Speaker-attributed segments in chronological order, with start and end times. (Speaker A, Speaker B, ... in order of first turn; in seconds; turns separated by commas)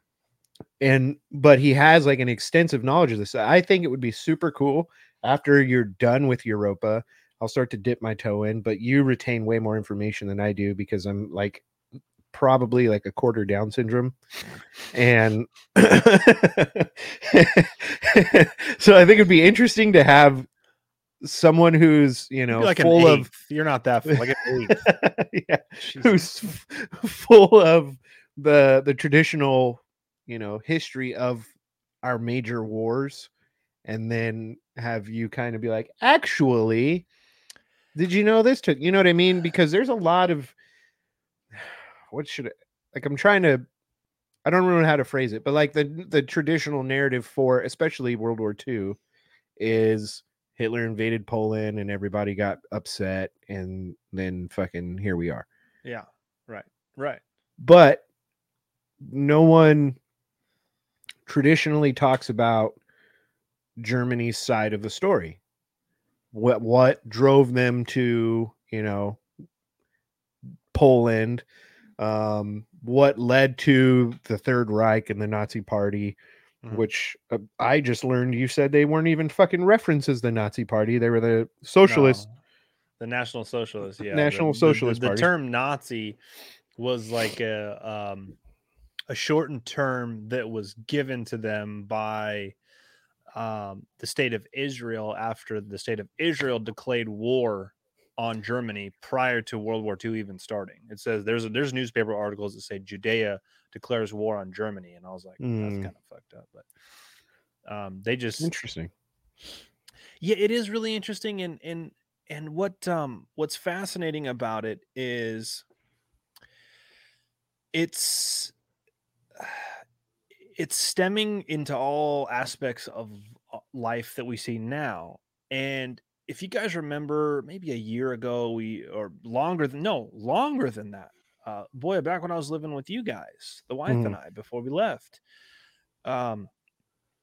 Speaker A: 0.8-11.6, Speaker A: 12.3-14.2, Speaker A: 14.9-20.5, Speaker A: 21.2-23.3, Speaker B: 22.5-24.8, Speaker A: 24.1-31.5, Speaker B: 25.8-26.2, Speaker A: 32.0-33.3, Speaker A: 33.8-37.1, Speaker A: 37.9-40.5, Speaker A: 41.5-43.6, Speaker A: 44.4-49.0, Speaker A: 49.6-55.5, Speaker B: 55.8-57.2, Speaker A: 57.6-58.0, Speaker A: 59.0-60.0, Speaker A: 61.3-62.8, Speaker A: 63.8-65.4, Speaker A: 66.3-69.2, Speaker A: 70.7-71.4, Speaker A: 72.0-76.2, Speaker A: 76.7-82.2, Speaker B: 81.8-82.3, Speaker B: 83.0-86.2, Speaker A: 84.1-85.3, Speaker B: 86.8-88.3, Speaker B: 89.1-92.5, Speaker B: 93.3-106.7, Speaker A: 105.4-105.9, Speaker B: 107.7-108.5, Speaker A: 108.4-108.9, Speaker B: 110.2-115.6, Speaker B: 117.7-118.5, Speaker B: 119.4-119.7, Speaker B: 120.6-135.2, Speaker A: 133.9-134.2, Speaker B: 136.0-136.5